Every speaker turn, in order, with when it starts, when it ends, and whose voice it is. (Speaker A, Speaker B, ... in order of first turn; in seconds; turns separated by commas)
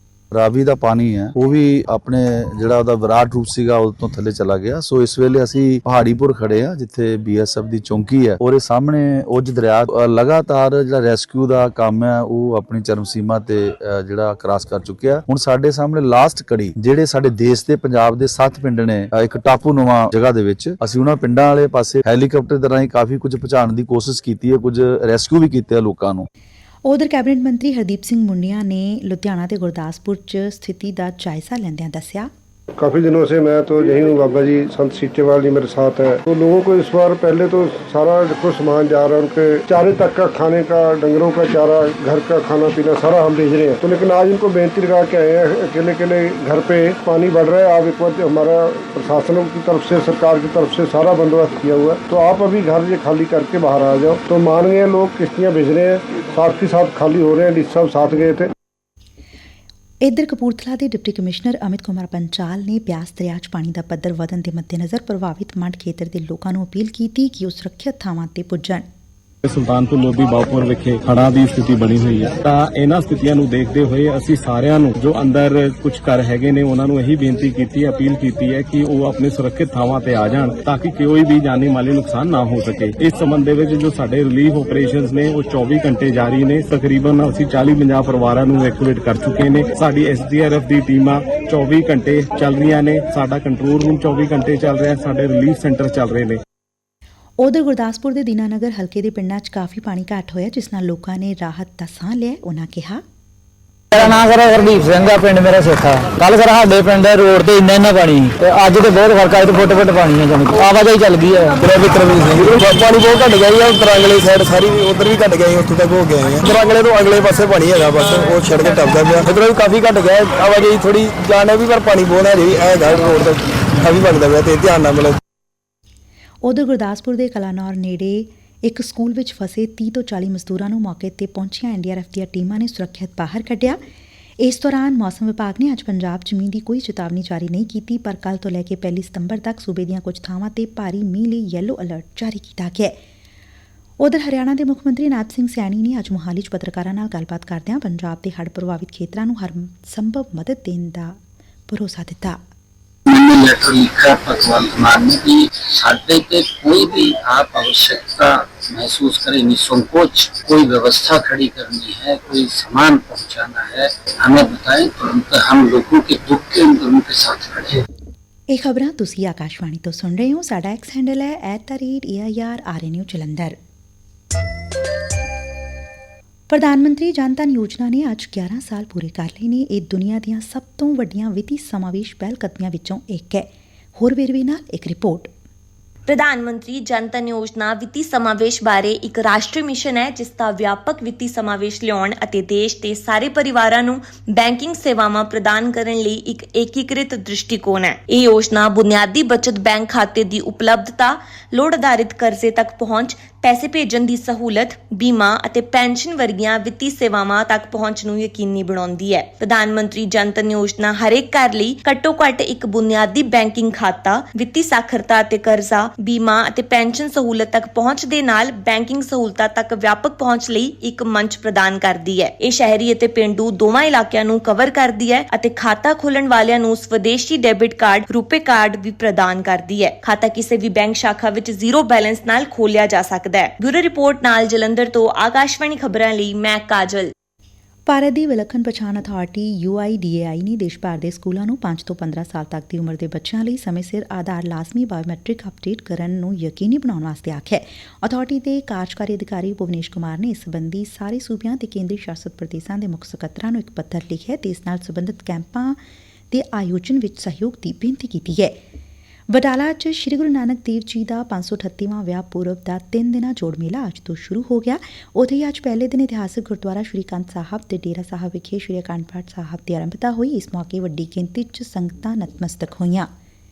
Speaker A: 0.3-26.3, Speaker B: 26.8-32.3, Speaker C: 32.8-58.5, Speaker B: 60.0-68.8, Speaker D: 69.4-96.4, Speaker B: 97.4-103.0, Speaker E: 103.9-111.6, Speaker F: 111.7-124.8, Speaker B: 126.4-133.8, Speaker B: 134.4-142.9, Speaker B: 144.0-151.2, Speaker B: 151.7-152.4, Speaker G: 153.1-167.8, Speaker B: 168.5-173.6, Speaker B: 176.5-185.3, Speaker H: 186.1-237.1, Speaker B: 237.9-255.8, Speaker B: 256.3-258.5, Speaker B: 259.3-273.1